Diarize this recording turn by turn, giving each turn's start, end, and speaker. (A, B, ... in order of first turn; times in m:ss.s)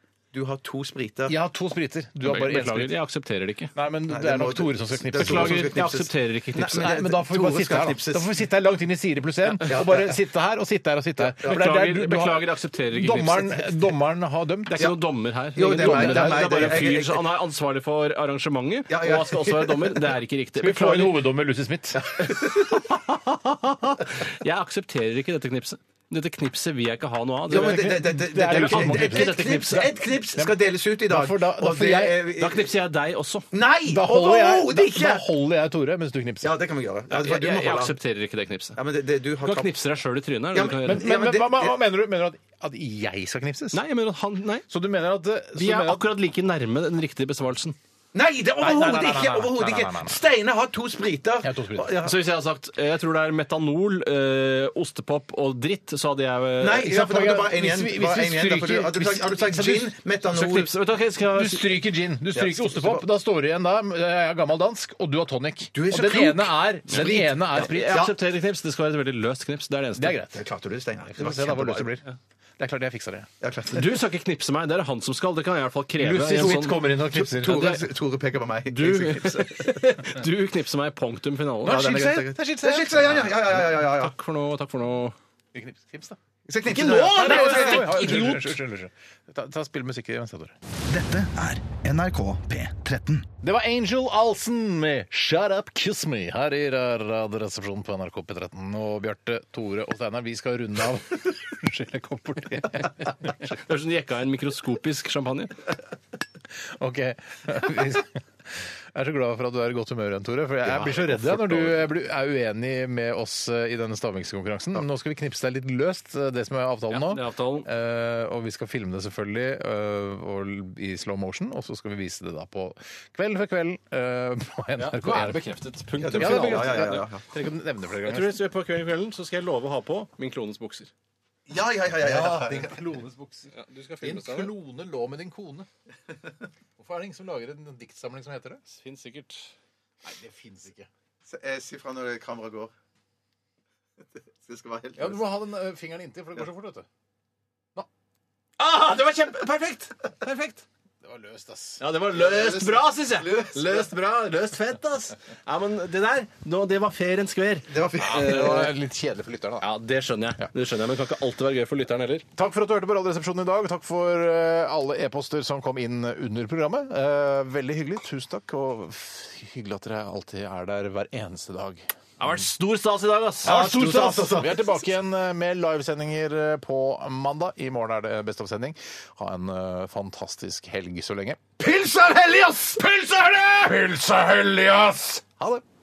0:00.3-0:01.4 A
0:01.3-0:03.0 B
0:02.2-0:03.7 C
0:03.7-0:05.8 B
0:04.1-0:08.4 A
0:05.2-0:06.9 C
0:06.6-0:14.8 B
0:09.6-0:10.2 A
0:11.2-0:11.6 A
0:11.4-0:13.7 C
0:14.7-0:21.2 C
0:15.5-0:17.3 A
0:15.8-0:16.8 B
0:18.9-0:20.0 A
0:20.6-0:22.3 B
0:22.2-0:22.6 A
0:22.3-0:29.9 C
0:27.5-0:30.5 B
0:27.5-0:32.7 A
0:31.0-0:32.3 B
0:32.4-0:33.4 C
0:33.5-0:35.2 A
0:33.9-0:36.5 B
0:36.4-0:38.0 A
0:37.1-0:38.8 C
0:38.8-0:39.7 A
0:39.4-0:41.1 C
0:40.5-0:41.8 A
0:40.8-0:43.8 B
0:43.7-0:44.6 C
0:44.7-0:46.1 B
0:45.5-0:47.8 C
0:48.1-0:52.2 A
0:48.6-0:50.2 B
0:51.4-0:52.0 B
0:52.0-0:56.9 C
0:56.6-1:00.7 A
0:56.8-0:59.9 B
1:00.3-1:01.7 C
1:01.3-1:08.1 B
1:02.3-1:03.0 A
1:05.7-1:08.2 A
1:06.9-1:10.2 C
1:10.0-1:10.4 B
1:10.3-1:12.0 A
1:11.0-1:12.0 B
1:12.6-1:13.3 B
1:13.4-1:14.0 A
1:13.7-1:16.8 C
1:16.0-1:17.8 B
1:17.1-1:19.8 A
1:17.4-1:17.8 C
1:18.7-1:22.1 C
1:21.6-1:23.3 B
1:21.6-1:24.1 A
1:23.3-1:25.2 C
1:25.5-1:26.2 B
1:26.5-1:28.2 A
1:26.6-1:28.5 C
1:27.1-1:30.6 B
1:30.9-1:33.3 D
1:33.4-1:43.5 B
1:43.4-1:45.6 C
1:46.7-2:05.4 B
1:50.7-1:51.8 C
1:56.9-1:57.7 C
2:04.8-2:07.0 C
2:06.0-2:07.2 A
2:06.0-2:08.4 B
2:08.0-2:10.9 C
2:11.5-2:12.8 A
2:12.0-2:15.7 B
2:13.5-2:14.5 C
2:16.8-2:18.6 B
2:18.7-2:19.5 C
2:20.0-2:20.9 B
2:21.2-2:22.7 A
2:24.4-2:25.3 A
2:25.0-2:26.9 B
2:28.6-2:30.6 C
2:31.0-2:31.8 B
2:31.8-2:38.7 C
2:32.2-2:33.7 A
2:37.7-2:38.7 A
2:38.0-2:39.6 B
2:39.6-2:42.2 C
2:42.3-2:51.8 B
2:52.2-2:53.7 C
2:53.4-2:54.7 A
2:53.4-3:05.6 B
3:01.6-3:02.7 A